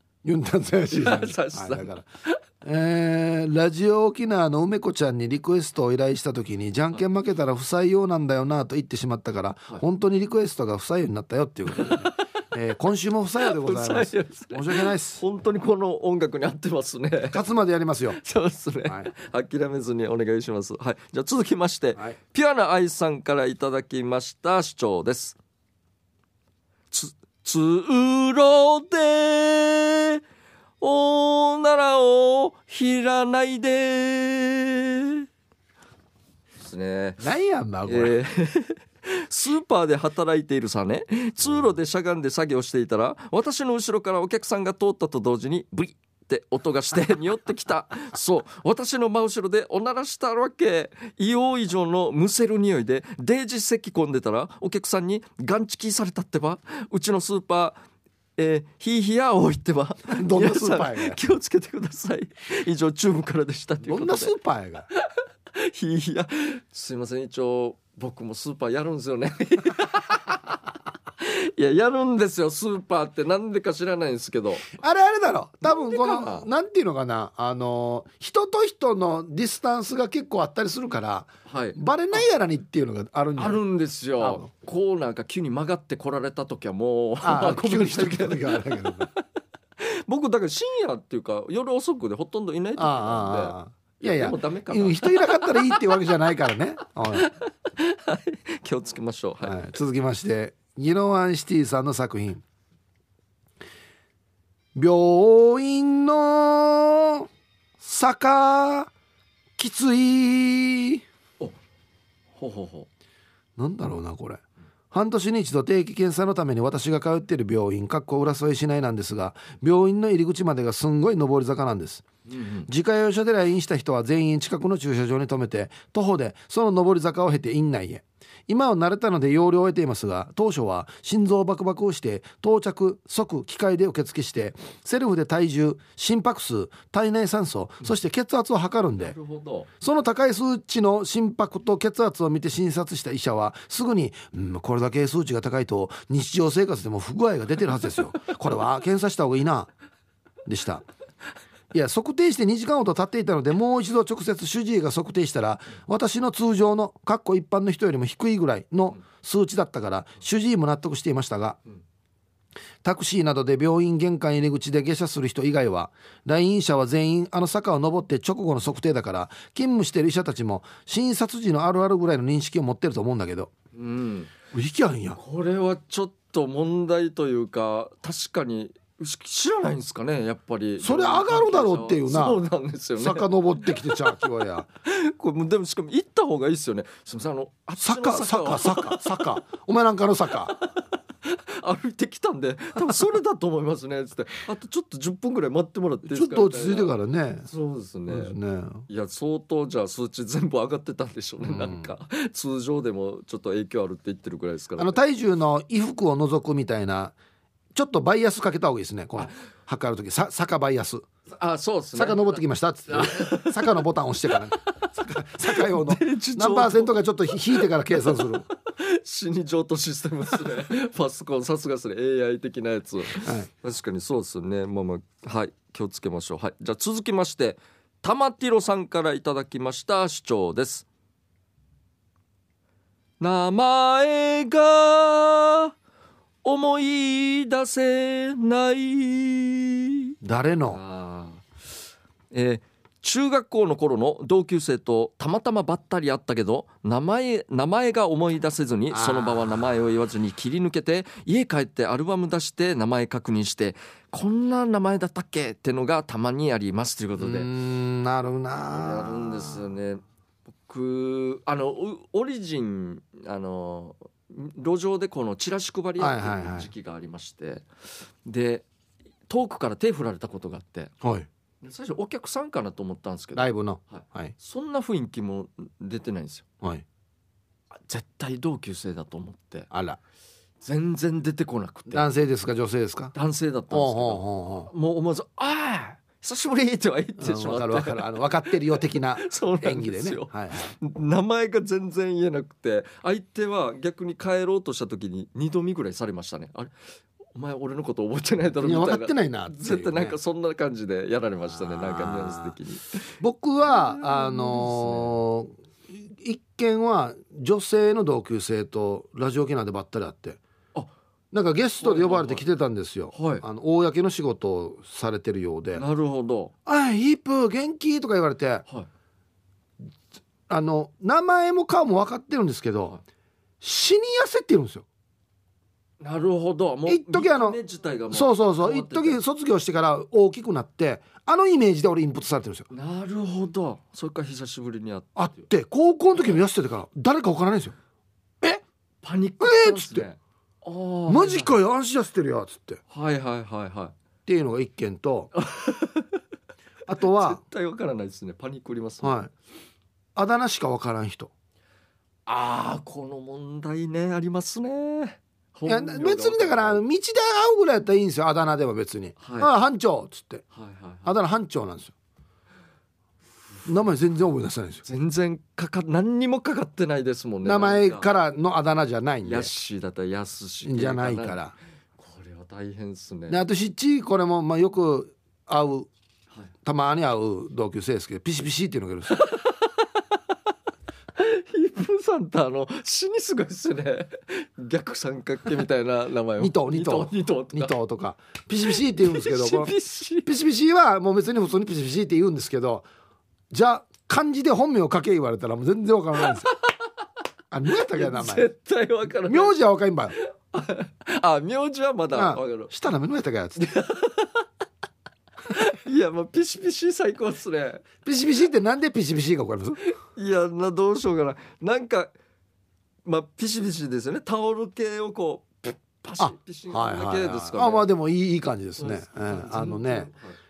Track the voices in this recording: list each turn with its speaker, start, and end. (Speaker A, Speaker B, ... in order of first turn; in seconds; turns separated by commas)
Speaker A: 0.2-2.0, Speaker B: 0.9-2.4, Speaker A: 2.6-15.2, Speaker B: 11.7-12.2, Speaker B: 13.4-17.4, Speaker A: 17.3-18.2, Speaker B: 18.2-25.4, Speaker B: 26.9-30.2, Speaker B: 30.8-35.2, Speaker B: 36.6-37.2, Speaker A: 37.2-38.1, Speaker B: 37.9-57.8, Speaker B: 58.4-64.3, Speaker A: 60.1-61.2, Speaker A: 63.8-64.9, Speaker B: 64.9-70.6, Speaker B: 71.2-74.7, Speaker A: 74.7-83.6, Speaker B: 75.6-76.5, Speaker B: 81.5-82.2, Speaker B: 83.4-88.9, Speaker A: 84.2-84.5, Speaker A: 87.2-89.1, Speaker B: 89.8-96.0, Speaker A: 92.8-97.3, Speaker B: 97.1-99.7, Speaker A: 99.4-102.4, Speaker A: 104.7-107.3, Speaker A: 107.8-108.9, Speaker A: 109.6-111.0, Speaker B: 112.4-112.9, Speaker A: 113.6-122.0, Speaker B: 122.3-122.7, Speaker A: 122.7-139.2, Speaker B: 139.0-139.7, Speaker A: 139.8-149.7, Speaker A: 150.4-150.8, Speaker A: 151.7-161.6, Speaker A: 162.8-173.5, Speaker B: 173.7-174.3, Speaker A: 174.5-175.2, Speaker B: 175.1-184.1, Speaker A: 180.8-182.4, Speaker A: 183.0-184.7, Speaker B: 184.8-189.3, Speaker A: 187.8-190.5, Speaker B: 190.4-196.9, Speaker A: 196.0-197.5, Speaker B: 197.4-198.3, Speaker A: 198.1-198.8, Speaker B: 198.9-205.0, Speaker A: 201.4-201.9, Speaker A: 204.8-207.2, Speaker A: 207.7-211.1, Speaker B: 211.3-213.8, Speaker A: 211.9-218.4, Speaker B: 215.5-216.9, Speaker B: 217.5-230.8, Speaker A: 223.2-223.5, Speaker B: 233.2-235.7, Speaker B: 236.4-240.1, Speaker A: 240.2-240.8, Speaker B: 240.7-241.4, Speaker B: 242.3-257.5, Speaker A: 248.9-249.6, Speaker A: 257.2-259.7, Speaker B: 258.7-260.0, Speaker B: 260.7-267.6, Speaker A: 266.0-266.7, Speaker B: 268.2-268.6, Speaker B: 269.3-270.9, Speaker A: 271.0-271.3, Speaker B: 271.6-276.4, Speaker A: 273.3-274.3, Speaker B: 277.9-279.7, Speaker A: 279.7-280.0, Speaker B: 280.6-282.1, Speaker A: 281.9-283.1, Speaker B: 283.1-288.2, Speaker A: 283.7-284.7, Speaker A: 287.2-290.7, Speaker B: 289.2-296.7, Speaker B: 297.3-303.1, Speaker A: 298.6-300.1, Speaker A: 301.6-302.5, Speaker A: 303.2-310.4, Speaker B: 303.6-305.2, Speaker A: 311.3-315.8, Speaker B: 311.8-312.4, Speaker B: 313.1-313.4, Speaker B: 315.7-316.5, Speaker A: 316.6-318.6, Speaker A: 320.5-322.9, Speaker A: 323.6-324.9, Speaker B: 326.0-329.2, Speaker A: 326.9-327.6, Speaker A: 328.1-332.7, Speaker B: 332.7-335.5, Speaker A: 335.1-337.7, Speaker B: 339.0-341.5, Speaker A: 339.4-340.1, Speaker A: 341.1-342.8, Speaker B: 342.9-343.9, Speaker A: 344.2-345.3, Speaker B: 345.3-346.2, Speaker A: 346.9-347.4, Speaker B: 347.0-349.2, Speaker A: 349.0-349.3, Speaker A: 350.1-351.3, Speaker B: 352.2-356.8, Speaker A: 355.6-360.4, Speaker B: 359.2-359.5, Speaker B: 360.5-361.1, Speaker A: 361.0-361.9, Speaker A: 363.6-364.8, Speaker B: 364.8-368.1, Speaker A: 367.4-369.5, Speaker B: 369.2-371.4, Speaker A: 370.6-371.5, Speaker B: 372.0-373.4, Speaker A: 373.3-375.9, Speaker A: 376.6-379.2, Speaker B: 379.1-380.0, Speaker B: 381.1-387.7, Speaker A: 386.4-389.7, Speaker B: 388.7-390.3, Speaker A: 390.2-392.9, Speaker A: 393.5-396.5, Speaker A: 397.5-398.5, Speaker B: 397.9-399.5, Speaker A: 399.2-400.1, Speaker B: 400.2-402.7, Speaker A: 402.1-403.6, Speaker B: 403.6-404.4, Speaker B: 405.5-407.8, Speaker A: 408.0-409.8, Speaker B: 409.8-412.1, Speaker B: 413.0-417.9, Speaker A: 416.2-420.1, Speaker B: 418.8-420.3